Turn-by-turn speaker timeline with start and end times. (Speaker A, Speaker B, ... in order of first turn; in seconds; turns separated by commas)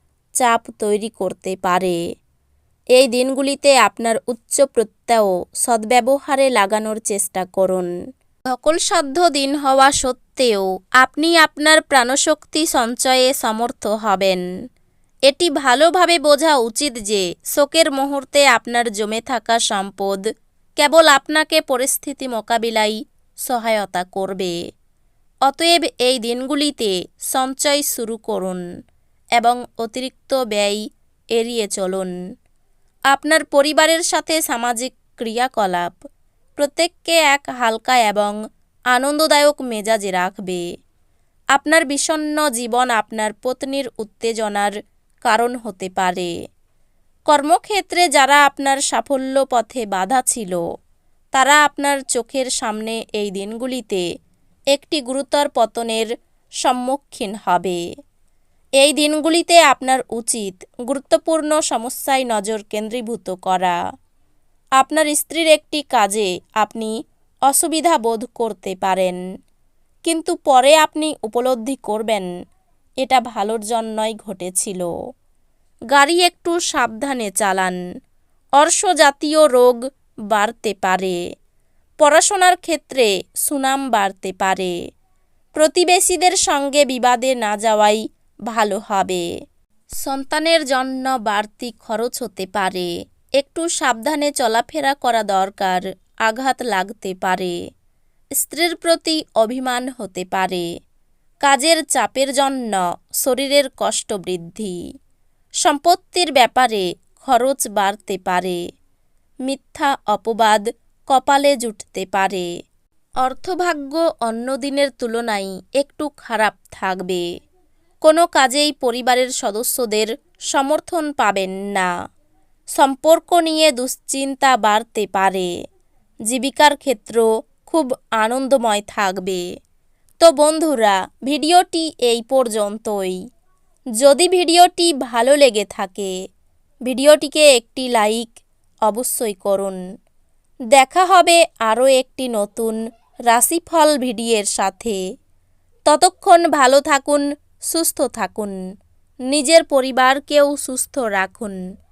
Speaker A: 0.4-2.0, Speaker A: 3.0-7.9, Speaker A: 8.5-14.4, Speaker A: 15.3-20.2, Speaker A: 20.8-24.6, Speaker A: 25.5-28.6, Speaker A: 29.4-30.8, Speaker A: 31.3-32.1, Speaker A: 33.1-35.9, Speaker A: 36.6-38.4, Speaker A: 38.9-40.6, Speaker A: 41.5-44.7, Speaker A: 45.2-46.3, Speaker A: 47.3-50.6, Speaker A: 51.3-54.0, Speaker A: 54.7-56.1, Speaker A: 56.6-57.8, Speaker A: 58.8-63.8, Speaker A: 64.8-66.9, Speaker A: 67.5-69.2, Speaker A: 70.0-72.3, Speaker A: 73.0-74.9, Speaker A: 75.9-77.8, Speaker A: 78.6-79.8, Speaker A: 80.3-81.2, Speaker A: 82.0-84.7, Speaker A: 85.6-89.2, Speaker A: 90.0-97.6, Speaker A: 98.4-100.7, Speaker A: 101.4-104.8, Speaker A: 105.6-108.6, Speaker A: 109.5-112.5, Speaker A: 113.2-117.2, Speaker A: 118.0-121.9, Speaker A: 122.8-125.5, Speaker A: 126.3-129.4, Speaker A: 130.2-133.2, Speaker A: 134.0-136.1, Speaker A: 136.9-138.3, Speaker A: 138.9-139.8, Speaker A: 140.7-142.8, Speaker A: 143.3-145.0, Speaker A: 145.9-148.6, Speaker A: 149.3-151.6